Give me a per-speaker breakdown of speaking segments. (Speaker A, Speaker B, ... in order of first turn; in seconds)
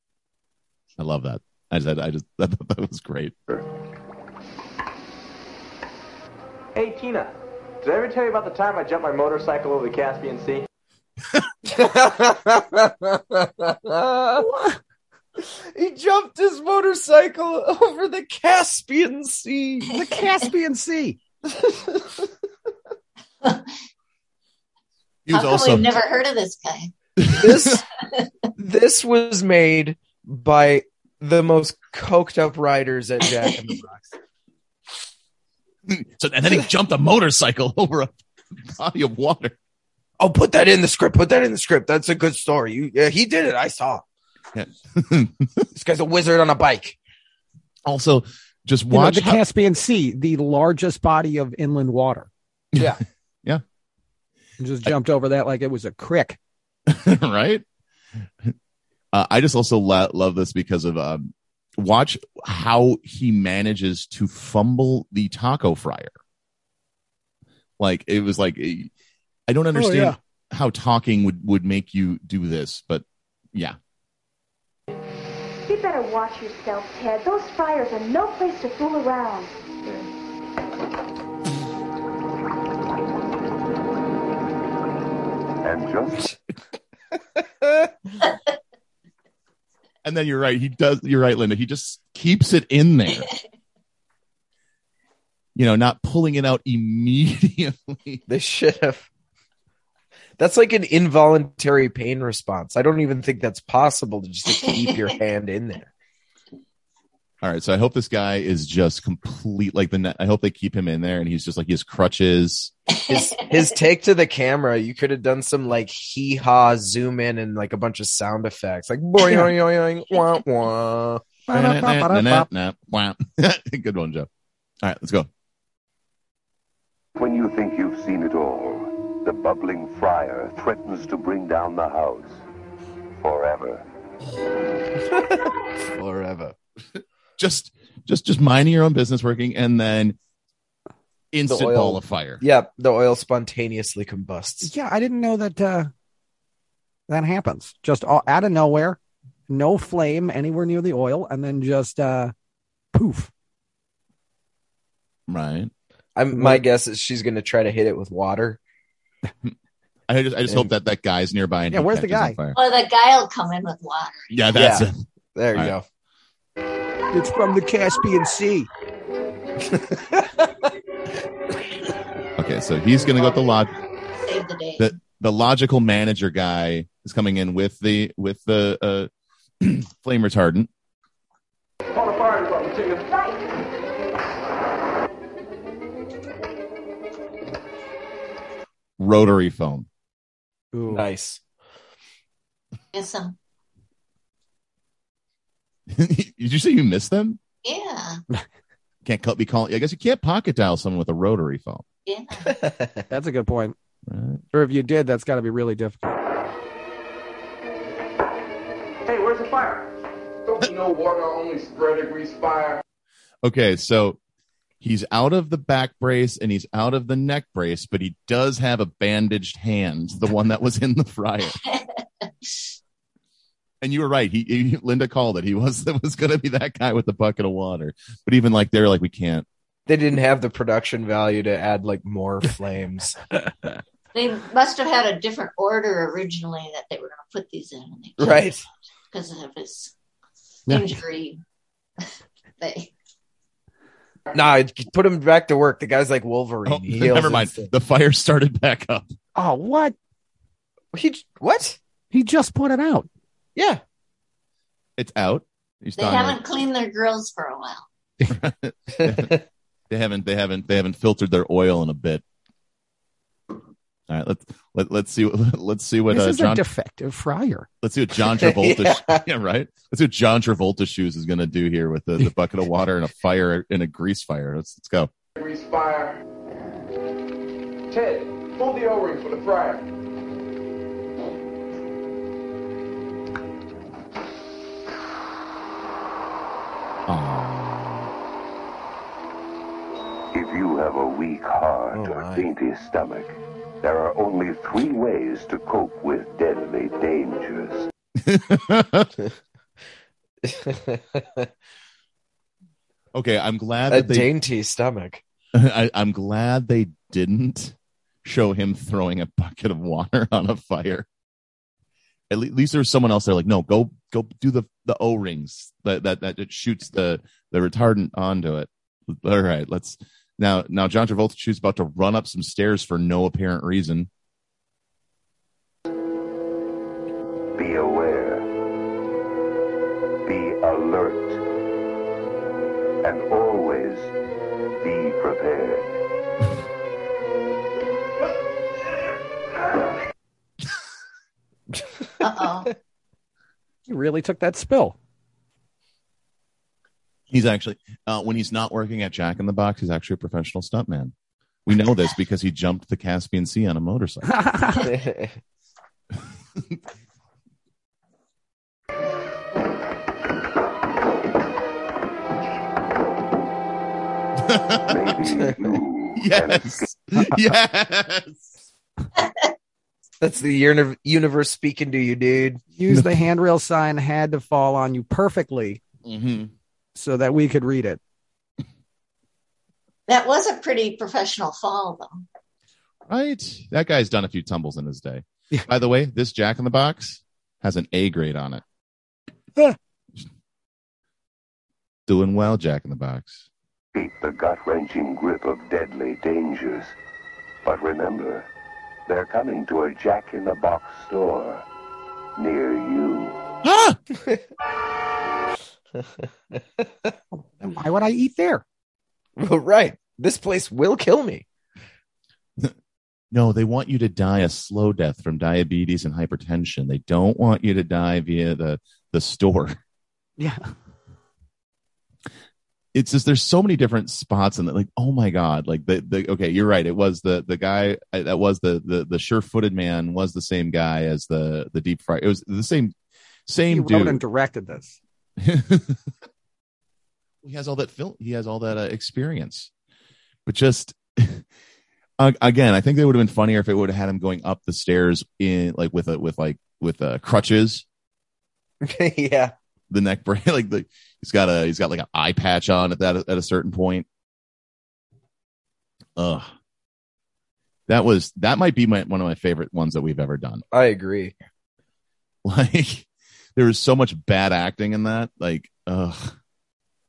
Speaker A: 1.0-3.4, 25.3-26.0, 35.9-38.1, 38.7-39.5, 44.5-45.6, 47.9-49.4, 52.7-53.6, 56.9-57.6, 59.1-66.1, 67.8-68.9, 69.5-73.8, 90.0-93.3, 95.5-98.2, 107.4-112.7, 121.5-124.3, 124.8-125.3, 137.4-140.2, 141.3-142.4, 155.3-155.7, 160.1-162.6, 164.3-165.0, 172.4-173.7, 174.8-179.1, 179.6-180.7, 189.0-189.9, 195.9-197.4, 199.0-201.8, 204.1-204.4, 213.4-214.2, 214.8-221.6, 223.8-229.4, 246.7-249.1, 255.0-256.4, 258.2-259.4, 259.9-262.2, 264.1-266.6, 267.8-275.1, 287.1-288.1, 298.2-299.1, 303.1-304.3, 305.5-311.1, 312.3-324.1, 347.3-351.1, 351.6-354.5, 364.4-364.9, 366.2-368.5, 372.9-373.2, 376.0-376.5, 383.1-388.6, 392.1-393.4, 403.6-404.0, 413.3-419.8, 422.9-432.9, 433.5-434.2, 435.4-436.0, 437.4-439.7, 440.4-441.4, 442.2-447.8, 449.9-454.1, 456.1-456.5, 457.9-460.6, 462.4-466.3
Speaker B: 6.7-10.7, 181.9-183.1, 209.1-209.9, 210.4-212.8, 275.4-276.2, 277.9-279.9
Speaker C: 11.6-14.4, 15.4-20.0, 21.5-22.3, 27.3-27.9, 28.6-34.1, 40.2-44.0, 45.7-47.0, 98.3-99.1, 100.4-105.9, 113.1-121.2, 135.0-136.6, 141.5-144.7, 156.2-158.6, 164.5-165.8, 169.7-170.5, 190.9-191.4, 202.5-203.0, 229.9-233.2, 238.2-238.6, 244.3-247.7, 250.9-251.8, 253.6-253.8, 268.4-269.2, 291.9-292.5, 300.4-301.5, 303.9-305.2, 341.7-342.0, 354.8-355.4, 370.2-372.6, 406.0-407.1, 409.4-411.4, 448.8-449.5, 460.7-461.3
Speaker D: 14.4-14.8, 19.9-21.2, 48.9-52.3, 54.6-56.4, 69.7-70.2, 119.2-119.5, 121.5-122.5, 144.6-145.9, 147.1-152.3, 152.9-153.3, 156.3-156.6, 161.7-162.4, 167.1-168.7, 190.7-191.1, 203.1-203.8, 204.5-206.2, 240.7-241.0, 249.3-249.9, 252.1-253.1, 266.1-267.7, 343.9-345.0, 354.3-354.9, 367.2-367.5, 372.8-375.8, 376.9-378.0, 407.5-408.6, 420.4-420.7, 433.7-435.0
Speaker E: 23.4-23.7, 25.3-27.4, 112.9-113.5, 162.5-164.3, 174.2-174.9, 192.9-193.3, 197.6-198.2, 202.1-202.6, 234.1-238.5, 239.1-239.9, 240.7-241.4, 242.6-242.9, 255.9-257.9, 342.2-342.7, 369.2-369.4, 380.1-382.2
Speaker F: 75.6-79.5, 183.1-183.4
Speaker G: 85.6-86.3, 127.2-132.4, 133.2-133.8, 290.3-297.9, 327.5-328.4, 330.2-331.4, 333.0-334.1, 334.8-335.9, 364.9-366.8, 393.9-396.9, 397.6-398.5, 399.1-401.6, 402.4-403.4